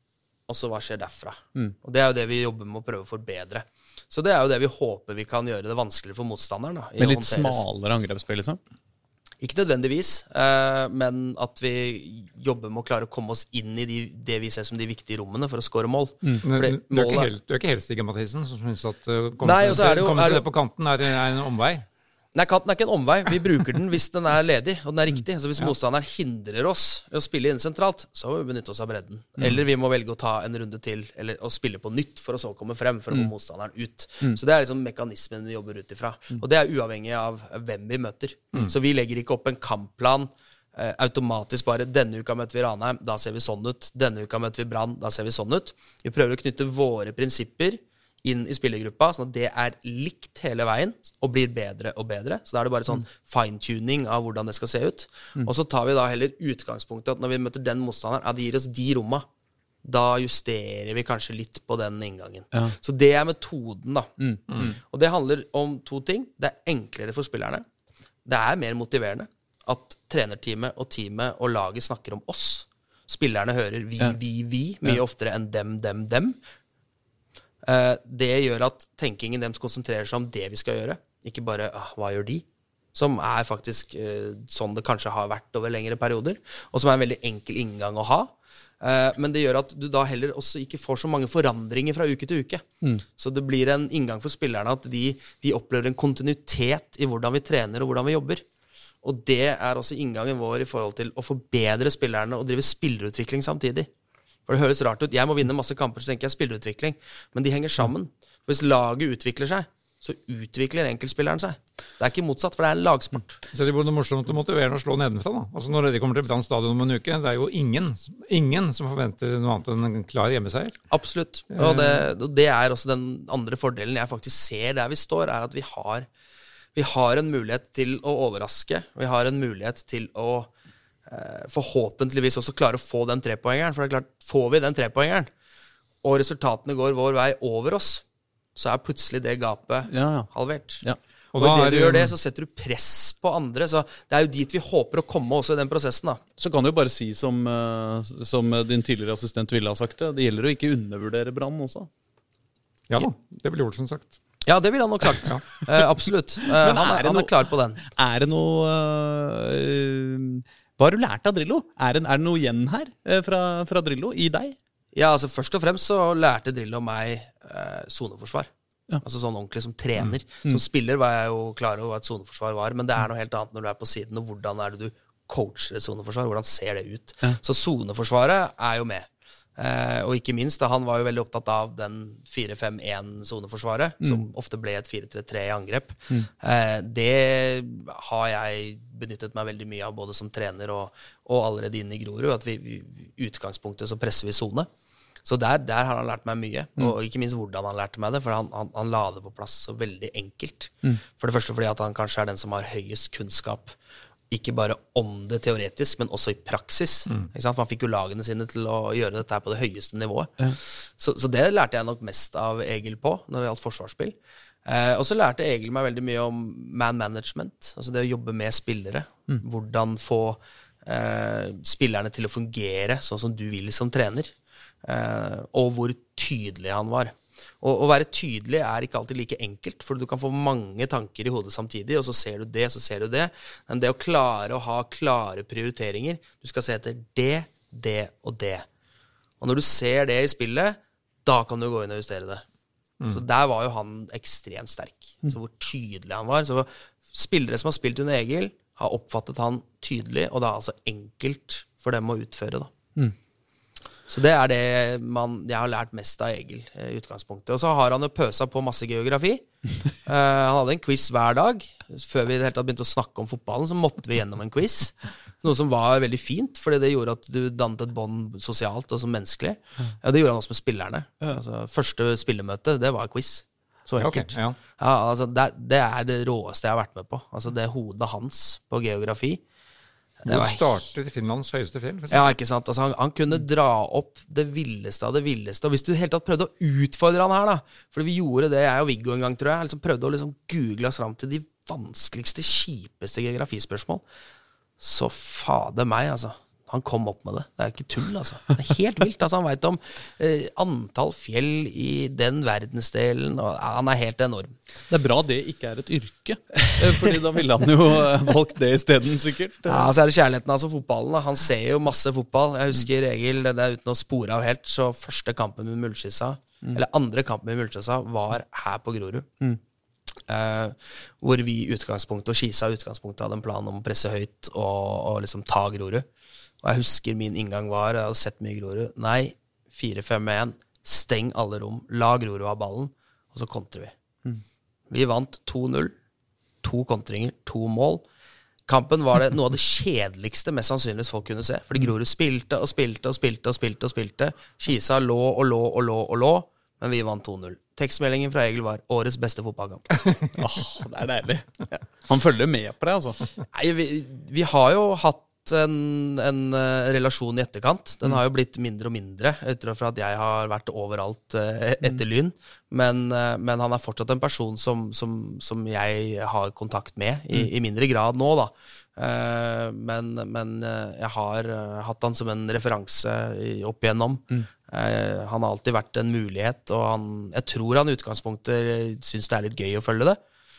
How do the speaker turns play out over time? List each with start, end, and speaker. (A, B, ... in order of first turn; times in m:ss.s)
0:00.5-0:07.6 A
0:07.0-0:08.6 B
0:09.4-0:17.3 A
0:16.4-0:21.8 C
0:19.4-0:20.4 A
0:22.4-0:59.3 A
0:59.8-1:07.6 A
1:04.2-1:04.7 B
1:08.2-1:16.4 A
1:17.6-1:38.4 A
1:39.0-1:43.9 A
1:44.5-1:53.4 A
1:53.5-2:00.8 C
2:00.9-2:06.1 A
2:01.5-2:02.1 C
2:06.8-2:10.5 A
2:11.1-2:15.3 A
2:16.0-2:18.0 A
2:18.6-2:20.8 A
2:19.9-2:20.3 B
2:21.3-2:22.1 C
2:21.4-2:26.2 A
2:26.4-2:31.9 B
2:32.9-2:34.2 C
2:34.5-2:37.8 A
2:36.6-2:44.6 B
2:45.0-2:48.5 A
2:49.0-3:14.7 A
3:15.2-3:23.8 A
3:24.3-3:58.7 A
3:59.4-4:02.4 A
4:03.1-4:12.7 A
4:14.1-4:19.4 A
4:20.0-4:39.4 A
4:34.0-4:34.6 C
4:40.2-4:40.8 A
4:40.3-4:42.3 C
4:42.1-4:54.0 A
4:54.8-5:04.5 A
5:04.9-5:09.9 B
5:09.7-5:19.3 A
5:20.3-5:26.1 A
5:26.6-5:34.0 A
5:34.9-5:35.9 A
5:36.6-5:38.0 A
5:38.7-5:50.1 A
5:50.4-5:53.3 B
5:53.5-6:20.2 A